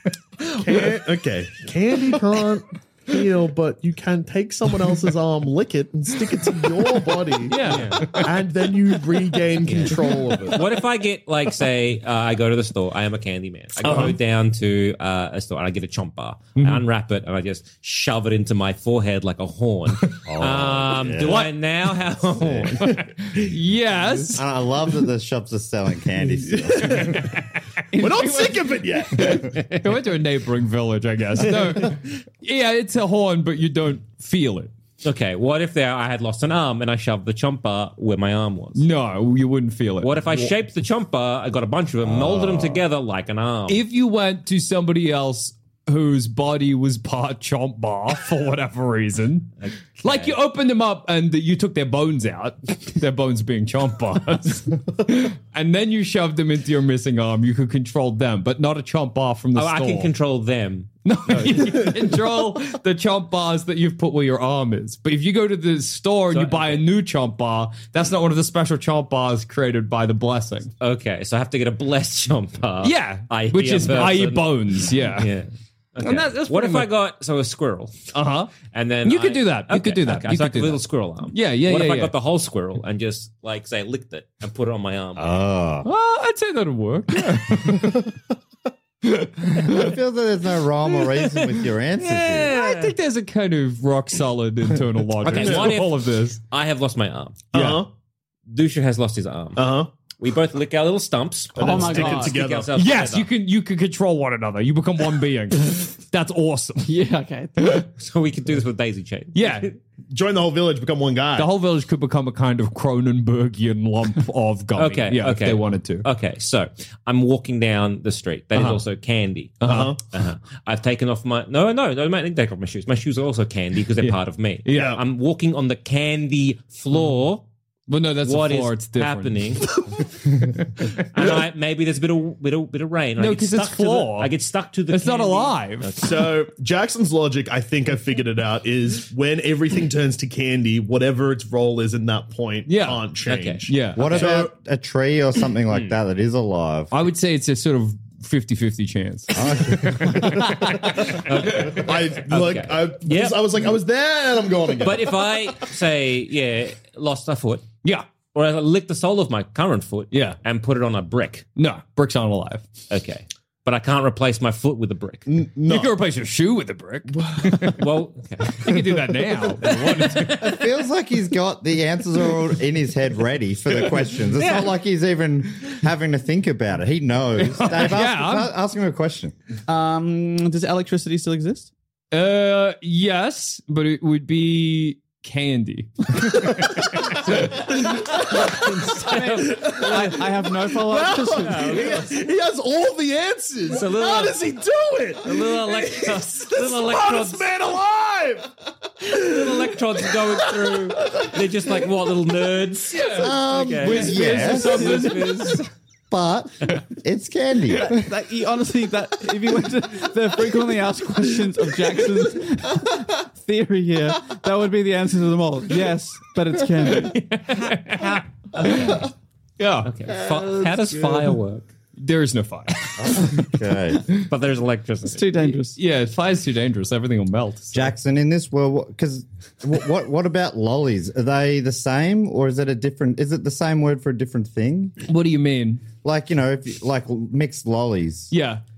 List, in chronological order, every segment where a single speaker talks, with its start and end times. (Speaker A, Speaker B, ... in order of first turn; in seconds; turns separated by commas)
Speaker A: 0.4-0.9, Speaker B: 0.5-10.7, Speaker A: 6.4-8.3, Speaker C: 7.6-8.2, Speaker C: 9.6-9.9, Speaker A: 9.9-10.4, Speaker C: 10.5-22.9, Speaker B: 13.8-14.2, Speaker A: 13.8-14.1, Speaker A: 16.6-16.8, Speaker D: 20.2-21.5, Speaker A: 21.2-21.5, Speaker D: 22.4-22.7, Speaker A: 22.8-24.4, Speaker D: 24.3-27.2, Speaker B: 26.5-27.2, Speaker A: 26.9-27.4, Speaker E: 27.9-28.6, Speaker B: 27.9-29.5, Speaker A: 28.0-34.7, Speaker C: 35.0-38.8, Speaker A: 38.8-40.4, Speaker C: 40.0-43.8, Speaker D: 42.0-42.8, Speaker A: 43.7-60.1, Speaker C: 49.6-50.4, Speaker C: 59.5-60.9, Speaker A: 61.0-70.7, Speaker C: 66.3-66.8, Speaker C: 70.8-78.0, Speaker A: 72.8-75.3, Speaker A: 76.0-76.9, Speaker A: 78.1-82.1, Speaker C: 78.7-85.4, Speaker D: 85.2-85.9, Speaker A: 85.8-88.1, Speaker A: 89.0-89.9, Speaker D: 89.5-92.5, Speaker C: 92.0-92.9, Speaker A: 92.5-96.4, Speaker C: 95.2-97.5, Speaker B: 95.4-95.7, Speaker B: 97.5-97.9, Speaker A: 97.5-97.8, Speaker C: 98.5-103.3, Speaker B: 99.6-99.9, Speaker B: 101.6-102.7, Speaker E: 101.6-102.4, Speaker A: 102.7-107.9, Speaker E: 106.9-107.6, Speaker C: 108.0-109.7, Speaker A: 109.3-109.7, Speaker B: 110.1-111.5, Speaker A: 111.4-116.1, Speaker C: 114.8-127.5, Speaker A: 118.5-118.8, Speaker A: 119.6-120.0, Speaker B: 119.6-120.0, Speaker A: 124.0-125.0, Speaker B: 124.7-125.0, Speaker A: 127.9-129.7, Speaker C: 128.2-129.8, Speaker B: 129.7-130.1, Speaker A: 130.6-130.9, Speaker C: 131.0-136.3, Speaker A: 133.2-134.3, Speaker A: 134.9-136.0, Speaker B: 136.0-144.5, Speaker A: 142.7-143.0, Speaker C: 143.2-143.7, Speaker A: 143.7-144.2, Speaker D: 144.0-146.9, Speaker C: 145.7-146.0, Speaker A: 146.9-151.8, Speaker D: 149.3-150.7, Speaker C: 151.0-153.5, Speaker B: 151.6-155.4, Speaker C: 154.8-157.7, Speaker C: 158.3-161.4, Speaker A: 160.1-160.4, Speaker A: 161.6-162.7, Speaker C: 162.9-165.3, Speaker B: 165.3-166.0, Speaker A: 165.7-167.8, Speaker B: 167.1-167.8, Speaker C: 167.8-168.7, Speaker A: 168.5-170.5, Speaker C: 169.7-170.3, Speaker D: 170.3-179.3, Speaker C: 174.4-174.7, Speaker A: 177.4-178.5, Speaker E: 179.7-181.7, Speaker A: 182.1-188.0, Speaker B: 187.3-190.2, Speaker C: 188.3-190.2, Speaker E: 189.0-191.9, Speaker B: 190.8-198.5, Speaker C: 191.3-192.2, Speaker C: 193.7-194.4, Speaker C: 195.2-197.5, Speaker C: 199.0-205.7, Speaker B: 199.0-201.4, Speaker A: 202.9-205.7, Speaker B: 203.1-204.1, Speaker D: 204.0-205.0, Speaker D: 206.1-208.1, Speaker E: 207.9-217.2, Speaker A: 216.9-219.0, Speaker C: 218.6-219.0, Speaker A: 219.6-219.9, Speaker C: 219.8-221.7, Speaker A: 222.0-223.5, Speaker D: 223.0-224.1, Speaker C: 224.3-225.5, Speaker E: 225.1-225.8, Speaker A: 225.5-227.9, Speaker D: 227.7-235.0, Speaker A: 235.1-235.9, Speaker D: 236.0-238.3, Speaker A: 238.3-238.6